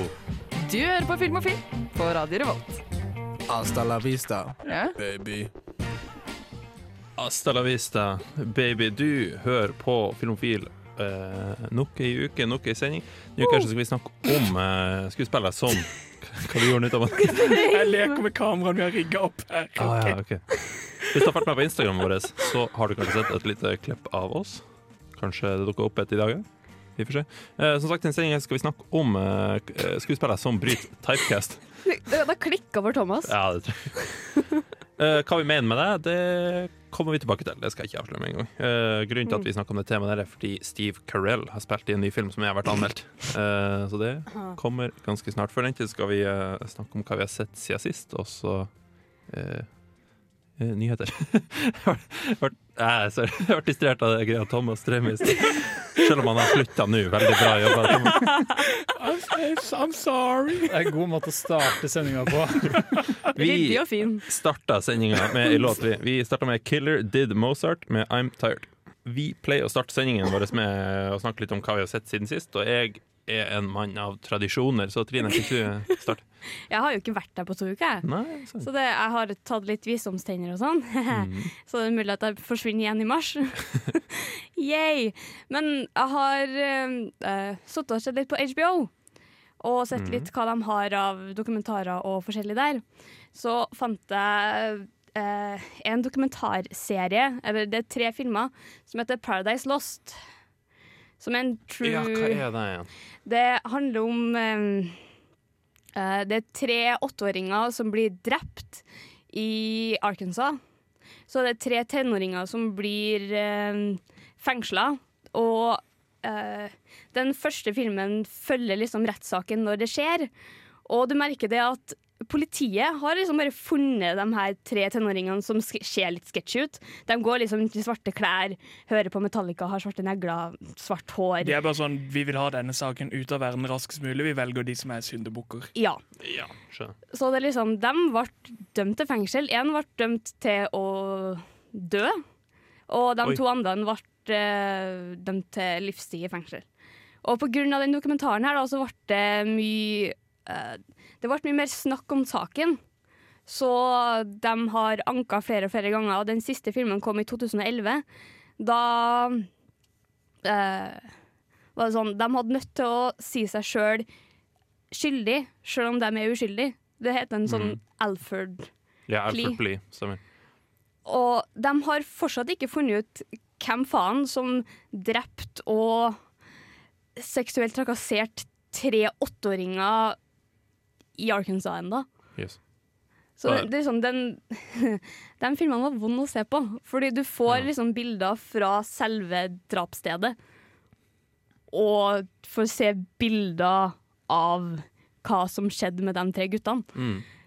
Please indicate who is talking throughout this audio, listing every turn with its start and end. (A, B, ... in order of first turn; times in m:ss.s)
0:00.6-0:02.8 A
0:03.5-0:05.5 B
0:04.6-0:05.0 A
0:07.2-0:17.6 C
0:17.2-0:18.2 D
0:17.5-0:20.2 E
0:19.8-0:26.4 C
0:27.0-0:31.6 C
0:31.8-0:33.3 D
0:33.2-0:34.4 C
0:35.0-0:48.7 C
0:49.3-0:49.7 C
0:50.6-0:58.4 C
0:58.8-1:00.8 E
1:00.7-1:02.9 F
1:03.3-1:04.2 D
1:03.3-1:16.2 C
1:16.7-1:24.0 D
1:18.0-1:18.7 C
1:21.1-1:21.5 C
1:24.6-1:28.9 D
1:29.6-1:40.2 D
1:29.9-1:30.3 C
1:41.2-1:42.4 D
1:41.8-1:42.9 C
1:43.2-1:45.0 D
1:45.9-1:50.6 D
1:51.3-2:00.3 D
2:00.8-2:11.6 D
2:11.4-2:15.7 E
2:15.7-2:16.0 D
2:16.2-2:16.9 C
2:17.1-2:22.2 D
2:22.9-2:26.6 D
2:27.2-2:32.8 D
2:33.5-2:38.0 D
2:38.6-2:39.5 D
2:40.4-2:41.1 D
2:41.7-2:44.0 D
2:44.9-2:48.7 D
2:47.5-2:47.8 C
2:49.1-2:50.2 C
2:49.3-2:49.6 D
2:51.0-2:56.2 D
2:57.2-3:00.2 D
3:01.2-3:02.1 D
3:03.4-3:10.4 D
3:11.7-3:16.9 D
3:16.9-3:17.2 C